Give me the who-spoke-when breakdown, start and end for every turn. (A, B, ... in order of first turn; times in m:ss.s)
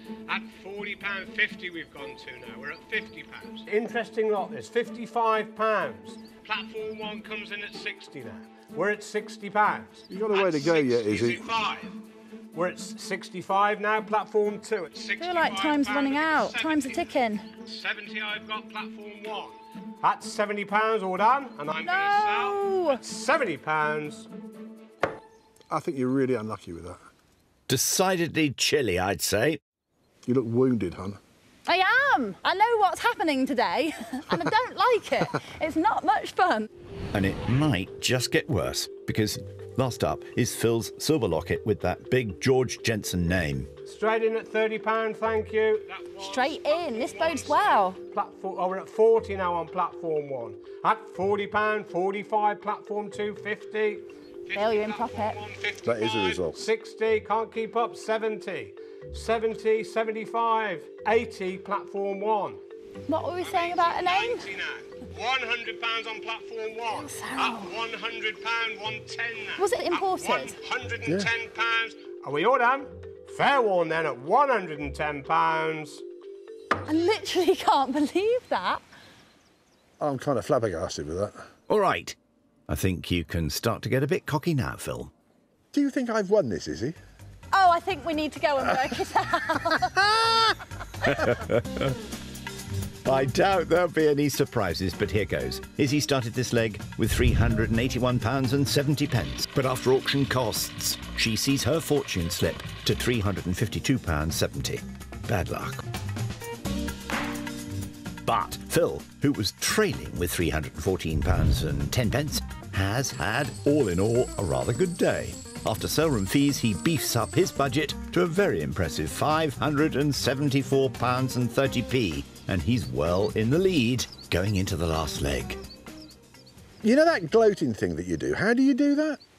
0:00.3-0:12.0 A
0:10.1-0:11.5 B
0:12.5-0:24.3 A
0:15.2-0:17.5 C
0:21.8-0:23.0 C
0:25.7-0:27.0 B
0:27.7-0:29.6 D
0:30.3-0:31.2 B
0:31.7-0:36.7 C
0:37.1-0:43.7 D
0:43.9-1:02.6 A
0:46.2-0:48.0 C
0:54.5-0:55.4 C
0:55.8-0:56.6 B
1:03.1-1:04.5 C
1:03.4-1:16.0 A
1:06.9-1:07.8 C
1:09.6-1:10.6 C
1:11.1-1:11.3 B
1:16.9-1:18.8 C
1:20.0-1:21.4 B
1:21.7-1:22.2 D
1:22.7-1:25.1 D
1:25.7-1:27.0 B
1:27.5-1:30.0 C
1:31.0-1:32.0 D
1:33.1-1:45.9 D
1:48.2-2:05.6 D
2:06.8-2:09.2 B